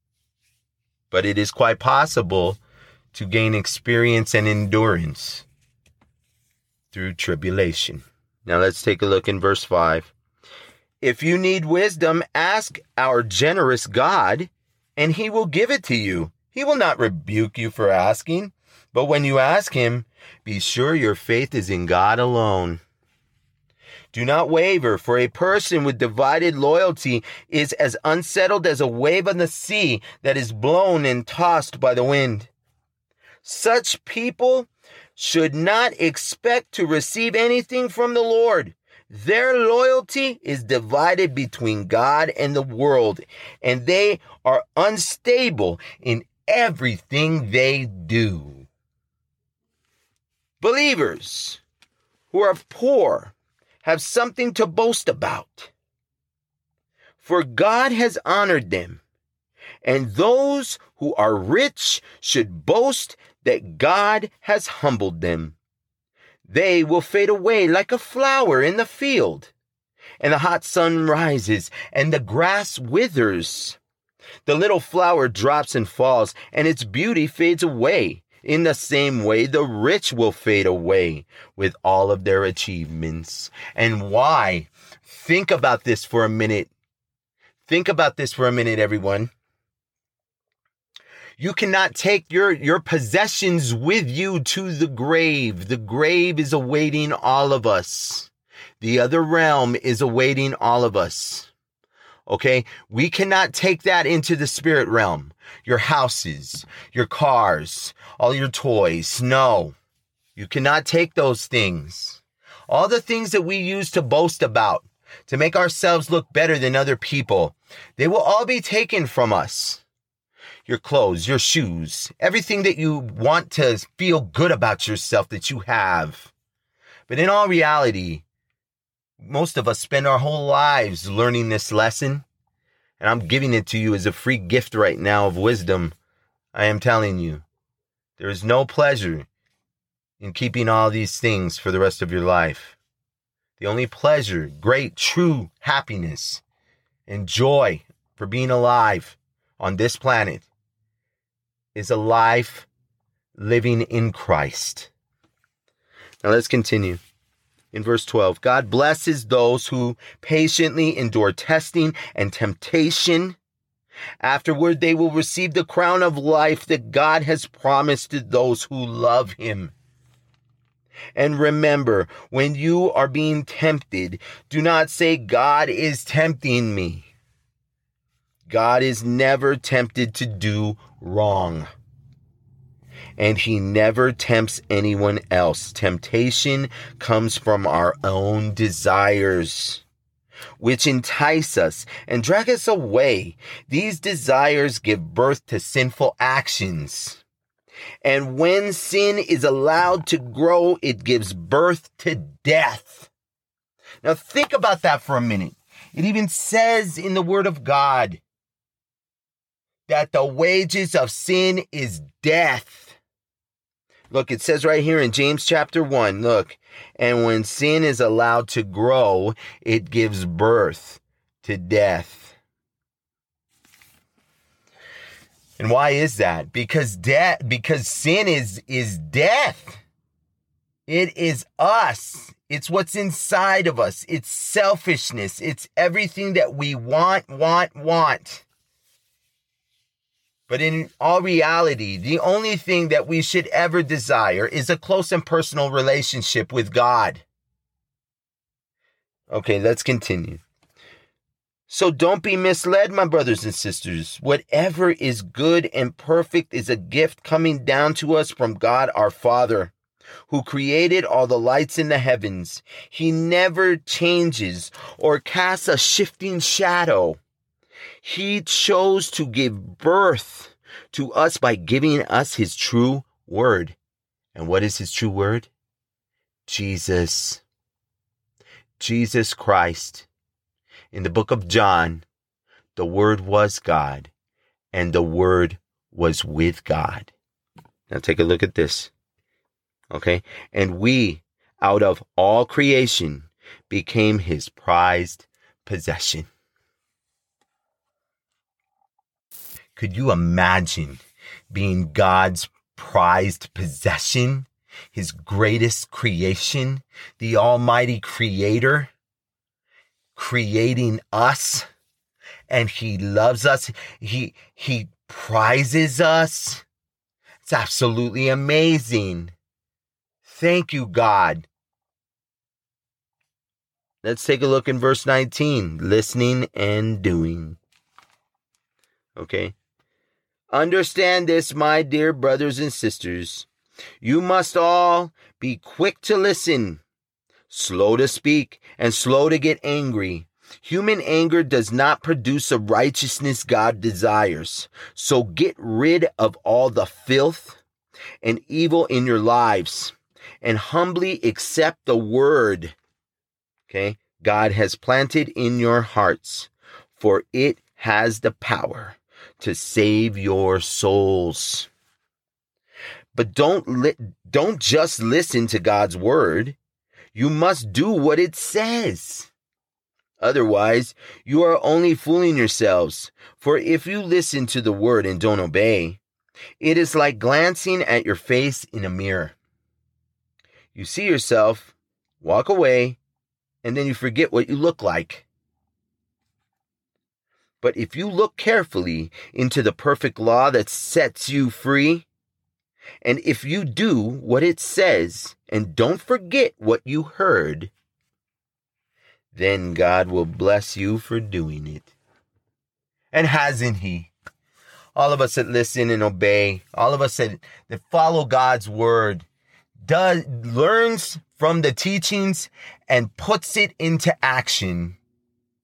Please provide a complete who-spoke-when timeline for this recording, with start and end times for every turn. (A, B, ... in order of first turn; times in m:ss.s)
0:01.1-0:02.6 A
0:03.1-0:05.5 A
0:06.9-0:10.1 A
0:11.0-0:22.8 A
0:24.1-0:32.5 A
0:33.4-0:48.7 A
0:50.6-0:51.6 A
0:52.3-0:55.7 A
0:57.2-0:59.0 A
0:59.8-1:05.6 A
1:06.5-1:09.5 A
1:10.2-1:13.8 A
1:14.5-1:26.7 A
1:27.7-1:29.3 A
1:31.4-1:41.5 A
1:42.3-1:49.8 A
1:50.4-1:59.8 A
2:00.7-2:06.3 A
2:07.1-2:08.2 A
2:09.2-2:12.2 A
2:13.0-2:15.9 A
2:16.5-2:17.4 A
2:18.2-2:19.3 A
2:20.2-2:22.8 A
2:23.6-2:26.4 A
2:27.1-2:30.5 A
2:31.8-2:32.7 A
2:33.4-2:34.9 A
2:36.2-2:37.0 A
2:37.7-2:43.4 A
2:44.2-2:49.7 A
2:51.2-2:57.1 A
2:58.5-3:01.7 A
3:03.2-3:09.8 A
3:10.6-3:17.2 A
3:18.0-3:23.1 A
3:24.0-3:28.2 A
3:29.9-3:33.0 A
3:34.1-3:42.4 A
3:45.6-3:49.8 A
3:50.9-3:58.5 A
4:00.5-4:07.2 A
4:09.3-4:10.4 A
4:11.7-4:19.7 A
4:20.3-4:27.2 A
4:28.0-4:33.8 A
4:34.4-4:35.5 A
4:36.5-4:37.4 A
4:38.8-4:40.1 A
4:40.9-4:42.1 A
4:42.8-4:44.1 A
4:44.7-4:47.1 A
4:47.9-4:48.9 A
4:49.9-4:56.3 A
4:59.8-5:08.9 A
5:10.2-5:11.7 A
5:12.5-5:16.6 A
5:17.4-5:19.3 A
5:20.2-5:21.5 A
5:24.0-5:27.6 A
5:29.2-5:29.6 A
5:30.5-5:33.5 A
5:34.0-5:36.8 A
5:37.5-5:47.6 A
5:48.2-5:52.8 A
5:53.7-6:01.7 A
6:03.1-6:06.6 A
6:07.1-6:09.3 A
6:10.2-6:16.0 A
6:16.6-6:19.4 A
6:20.7-6:23.0 A
6:23.6-6:25.3 A
6:27.6-6:32.1 A
6:33.0-6:37.7 A
6:39.3-6:41.9 A
6:43.1-6:44.1 A
6:45.0-6:49.3 A
6:49.8-6:55.0 A